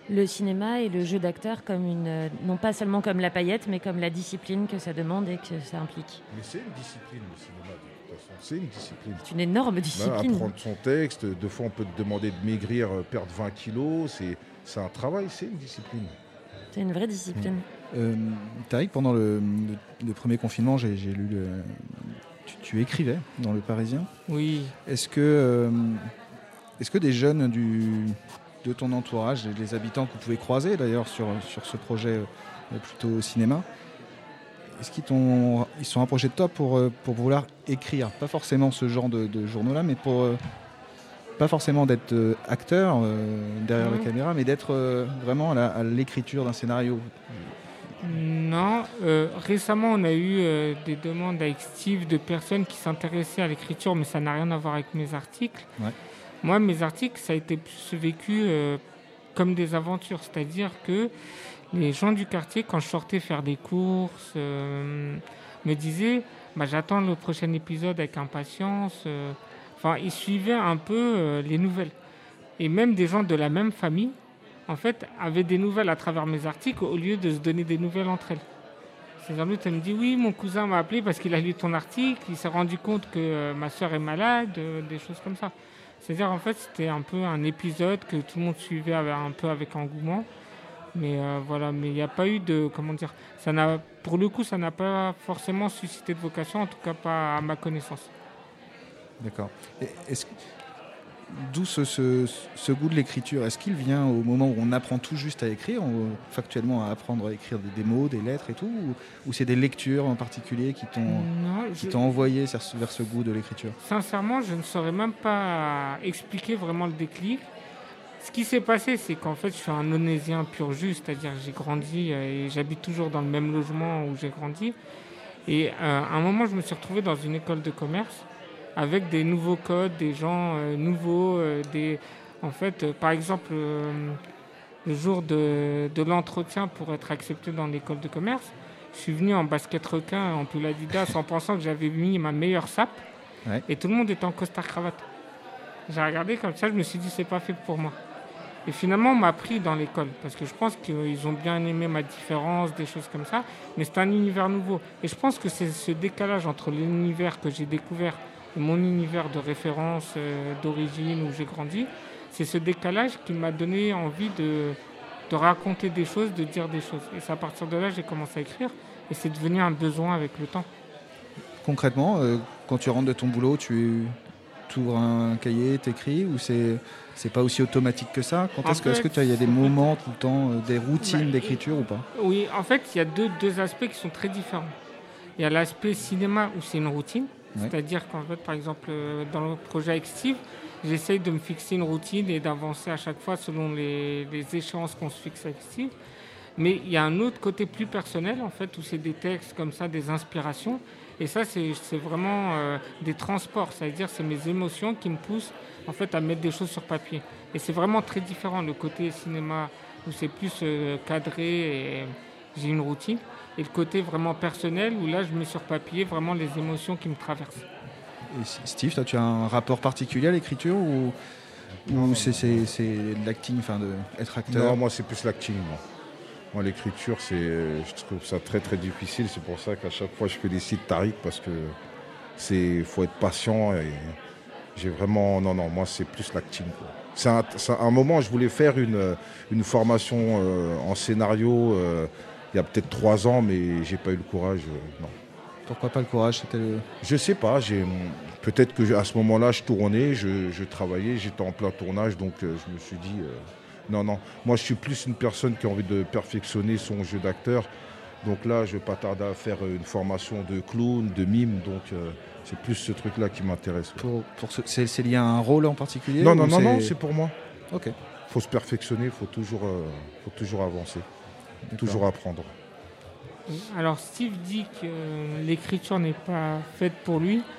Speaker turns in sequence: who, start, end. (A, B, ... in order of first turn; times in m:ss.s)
0:00.1-0:06.2 A
0:06.3-0:09.2 B
0:09.2-0:10.5 A
0:10.0-0:16.1 B
0:16.7-0:17.6 A
0:17.9-0:24.1 C
0:24.3-0:24.7 D
0:24.8-0:26.1 C
0:26.8-0:33.7 C
0:34.7-0:40.4 C
0:41.4-0:47.5 C
0:43.8-0:44.1 D
0:48.0-0:55.7 D
0:56.4-0:58.8 D
0:59.4-1:01.1 D
1:01.7-1:11.9 D
1:12.6-1:14.2 D
1:14.7-1:18.4 D
1:19.2-1:30.3 D
1:30.9-1:38.1 D
1:39.2-1:40.3 C
1:41.3-1:53.8 C
1:51.1-1:52.0 D
1:53.8-1:57.4 D
1:58.2-2:04.8 D
2:05.5-2:14.2 D
2:14.8-2:23.0 D
2:23.7-2:25.0 D
2:25.9-2:28.0 D
2:28.7-2:44.8 D
2:45.3-2:50.7 D
2:51.6-2:54.2 C
2:54.7-3:02.0 C
2:58.6-2:59.9 D
3:01.0-3:04.7 D
3:05.4-3:15.9 D
3:16.6-3:37.6 D
3:38.3-3:41.2 C
3:41.9-3:44.8 C
3:41.9-3:42.7 B
3:44.5-3:45.8 B
3:46.5-3:51.8 B
3:52.4-3:54.2 B
3:54.8-4:05.2 B
4:05.7-4:06.9 C
4:07.0-4:17.7 B
4:18.2-4:24.1 B
4:24.0-4:26.9 C
4:26.2-4:27.3 B
4:28.3-4:31.1 B
4:31.7-4:32.0 C
4:31.7-4:32.5 B
4:33.5-4:37.5 D